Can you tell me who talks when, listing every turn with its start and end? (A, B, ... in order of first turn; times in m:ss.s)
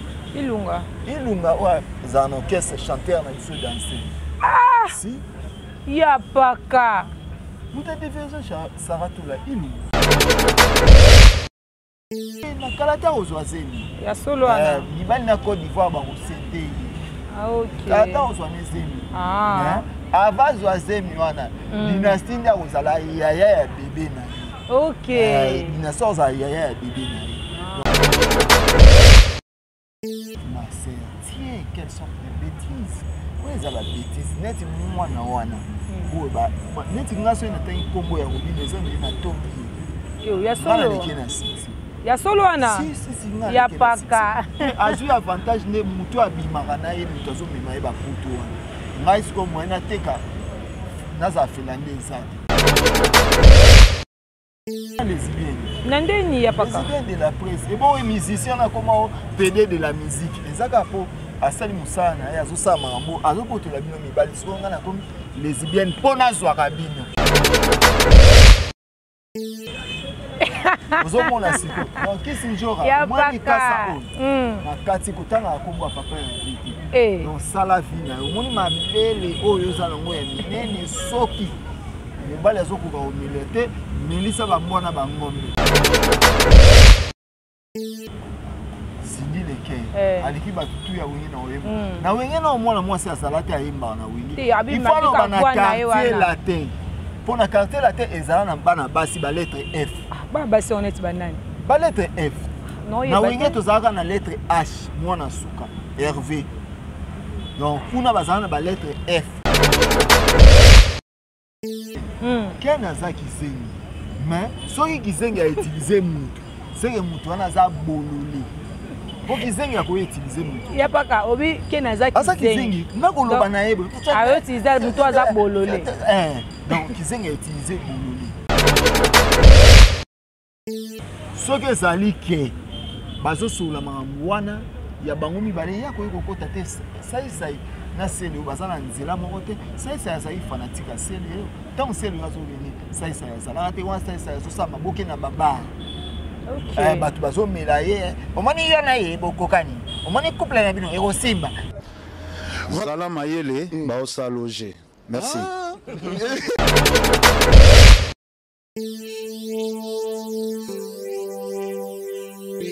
0:00.3-0:00.9 A
0:01.0-0:04.1 B
0:04.4-0:05.0 A
0:04.9-0:05.2 B
0:05.9-0:07.1 A
0:07.7-0:09.9 B
0:12.4-0:13.9 B
0:14.0-0:14.9 A
0:14.4-0:17.0 B
0:17.3-0:18.3 A
0:17.8-0:24.6 B
0:19.1-0:19.8 A
0:21.7-0:22.2 A
0:24.7-0:25.7 A
0:25.1-0:28.3 B
0:27.5-0:27.9 A
0:30.4-0:39.8 B
0:40.2-0:41.1 A
0:40.6-0:41.8 B
0:42.0-0:42.9 A
0:42.6-0:50.2 B
0:43.5-0:45.0 A
0:51.1-0:52.4 B
0:55.0-0:55.8 B
0:55.8-0:56.9 A
0:56.5-1:07.1 B
1:10.4-1:11.9 A
1:11.0-1:21.6 B
1:12.8-1:14.6 A
1:16.9-1:17.3 A
1:22.2-1:25.6 B
1:29.0-1:36.7 B
1:29.9-1:30.3 A
1:31.6-1:32.1 A
1:34.4-1:36.3 A
1:37.2-1:40.0 B
1:40.1-1:41.4 A
1:41.6-1:42.5 B
1:42.8-1:43.6 A
1:43.1-1:46.5 B
1:47.6-1:49.4 B
1:52.2-1:52.6 A
1:52.6-1:58.5 B
1:59.2-2:00.7 B
2:00.7-2:03.5 A
2:02.1-2:08.4 B
2:04.1-2:05.9 A
2:11.4-2:12.6 B
2:13.2-2:25.7 B
2:26.5-2:27.1 A
2:26.8-2:31.5 B
2:32.6-2:35.5 C